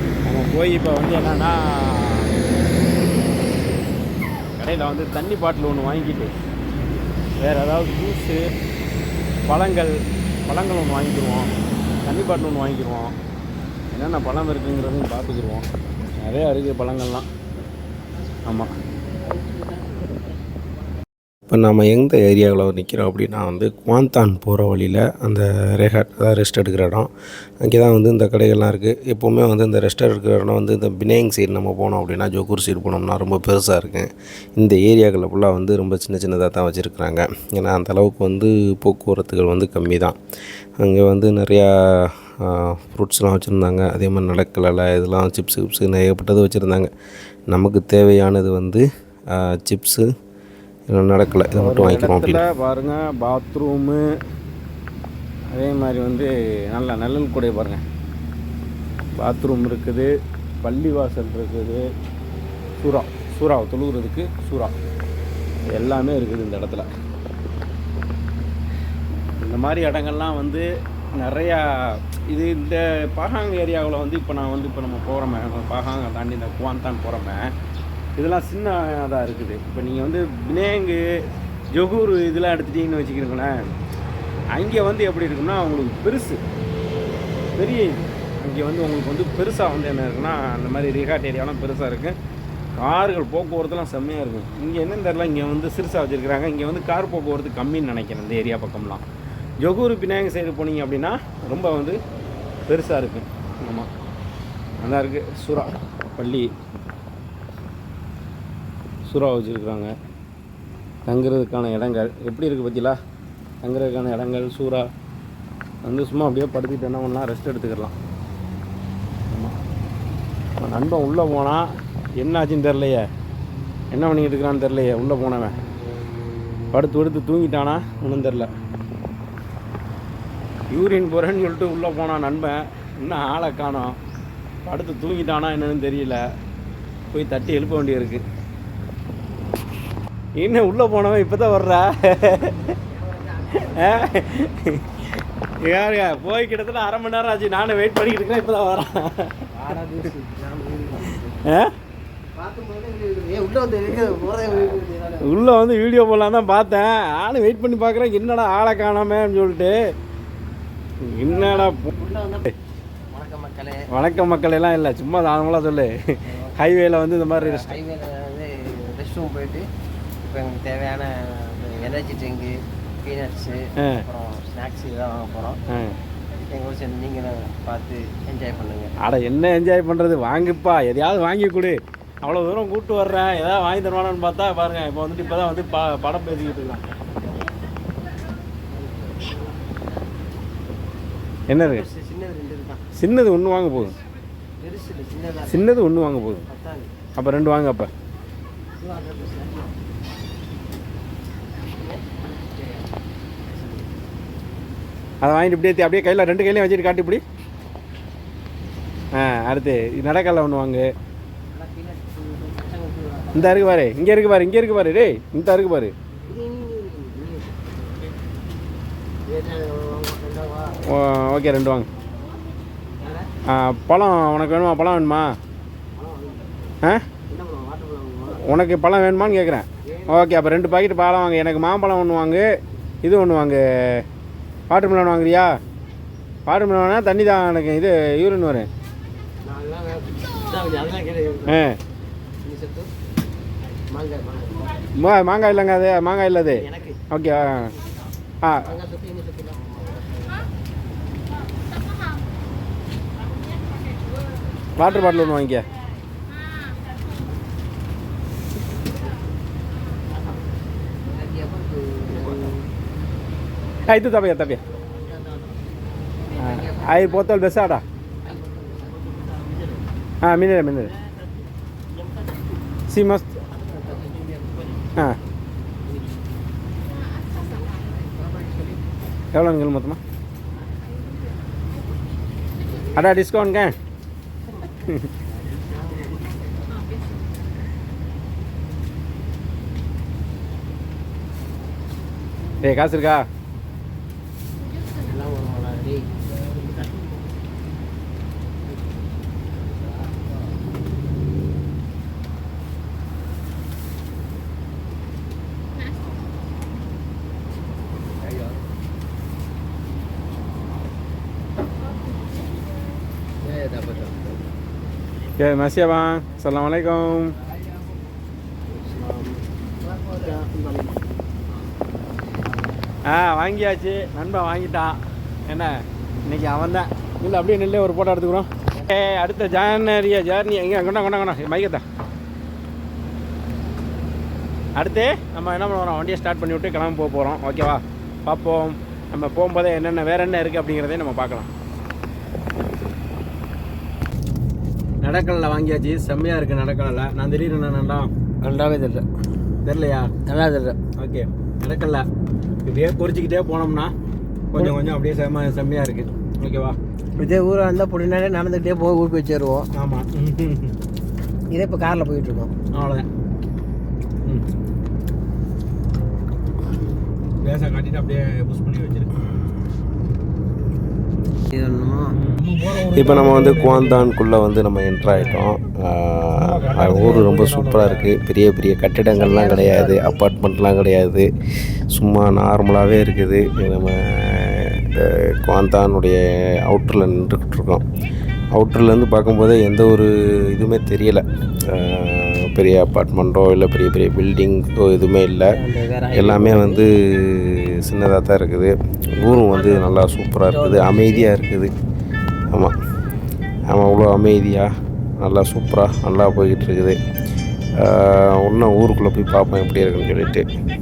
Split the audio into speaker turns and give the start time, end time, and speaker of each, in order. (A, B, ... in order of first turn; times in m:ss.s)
0:00.2-0:02.4 A
0:04.6-0:06.3 A
0:07.4-0:08.5 A
0:09.5-0:10.0 A
0:10.5-0:11.5 A
0:12.0-0:13.1 A
0:13.9-0:15.7 A
0:16.2-0:17.2 A
0:18.5-0:18.7 A
0:19.2-0:20.0 B
0:21.5-0:27.1 C
0:27.6-0:40.2 C
0:40.8-0:46.9 C
0:47.5-0:50.1 C
0:50.9-0:52.4 C
0:51.5-0:54.1 A
0:55.5-0:57.8 A
0:59.2-1:01.9 A
1:02.8-1:04.7 A
1:05.7-1:06.9 A
1:09.4-1:10.7 A
1:11.2-1:17.5 A
1:18.2-1:21.0 A
1:21.7-1:23.6 A
1:24.5-1:26.4 A
1:27.5-1:32.2 A
1:32.8-1:39.0 A
1:39.6-1:42.0 A
1:42.7-1:43.9 A
1:44.8-1:46.5 A
1:49.1-1:49.9 A
1:51.1-1:52.9 A
1:53.6-1:54.9 A
1:55.8-1:57.9 A
1:59.3-1:59.5 A
2:00.6-2:01.7 A
2:02.2-2:03.1 A
2:03.9-2:05.6 A
2:06.7-2:08.5 A
2:10.7-2:14.0 A
2:14.7-2:16.2 A
2:17.1-2:18.2 A
2:20.4-2:22.8 A
2:22.9-2:24.0 B
2:23.5-2:25.0 A
2:25.6-2:29.5 A
2:29.5-2:31.4 B
2:31.4-2:31.7 A
2:32.3-2:35.4 B
2:35.2-2:39.8 A
2:41.1-2:41.8 A
2:41.2-2:42.5 B
2:43.1-2:43.8 B
2:43.9-2:47.8 A
2:46.2-2:46.6 B
2:47.3-2:49.6 B
2:50.3-2:55.6 B
2:55.7-2:56.0 A
2:56.5-2:58.9 B
2:59.0-3:06.8 A
3:08.7-3:09.7 B
3:11.5-3:11.8 A
3:11.5-3:12.8 B
3:12.9-3:13.9 A
3:14.6-3:15.7 B
3:15.5-3:16.4 A
3:16.5-3:16.9 B
3:17.2-3:17.9 A
3:18.8-3:19.7 B
3:21.8-3:22.9 B
3:23.4-3:23.9 B
3:25.2-3:27.2 A
3:29.1-3:30.9 A
3:31.5-3:33.7 B
3:33.3-3:35.9 A
3:36.2-3:38.1 B
3:39.2-3:40.8 B
3:40.8-3:41.9 A
3:43.0-3:43.3 B
3:43.5-3:45.3 A
3:45.9-3:46.7 B
3:47.3-3:48.4 B
3:48.4-3:52.4 A
3:49.8-3:50.7 B
3:53.0-3:54.0 A
3:54.7-3:55.5 A
3:56.4-3:58.7 A
3:59.4-4:01.6 B
4:01.5-4:01.8 A
4:02.4-4:02.9 B
4:03.9-4:04.9 B
4:05.0-4:07.7 A
4:06.6-4:07.9 B
4:08.4-4:08.7 A
4:08.6-4:10.5 B
4:14.8-4:15.6 A
4:21.0-4:22.7 B
4:23.9-4:24.6 A
4:24.9-4:25.6 B
4:26.3-4:27.3 B
4:26.4-4:27.8 A
4:28.2-4:29.9 B
4:30.2-4:30.9 A
4:31.9-4:32.4 B
4:32.9-4:33.3 A
4:33.5-4:34.9 B
4:35.9-4:36.2 B
4:37.2-4:38.8 B
4:39.3-4:40.0 A
4:42.9-4:43.8 A
4:45.4-4:46.5 B
4:52.6-4:53.2 A
4:54.9-4:56.1 B
5:08.3-5:08.6 B
5:13.4-5:14.4 B
5:15.4-5:17.4 A
5:18.7-5:21.0 B
5:23.1-5:25.0 A
5:25.5-5:31.8 A
5:34.8-5:41.5 A
5:45.0-5:49.0 A
5:49.6-5:50.2 A
5:50.3-5:50.8 B
5:50.9-5:52.1 A
5:52.6-5:53.9 A
5:54.5-5:56.8 A
5:57.2-5:59.7 B
5:59.7-6:00.7 A
6:01.5-6:02.5 B
6:02.7-6:03.1 A
6:07.4-6:09.1 A
6:11.5-6:12.2 B
6:12.2-6:14.1 A
6:12.9-6:21.3 C
6:15.1-6:15.4 A
6:16.3-6:18.1 A
6:19.1-6:20.2 B
6:21.9-6:27.8 C
6:28.5-6:41.7 C
6:35.5-6:36.8 B
6:39.2-6:41.3 B
6:43.7-6:44.7 C
6:45.2-6:47.0 C
6:47.8-6:50.5 C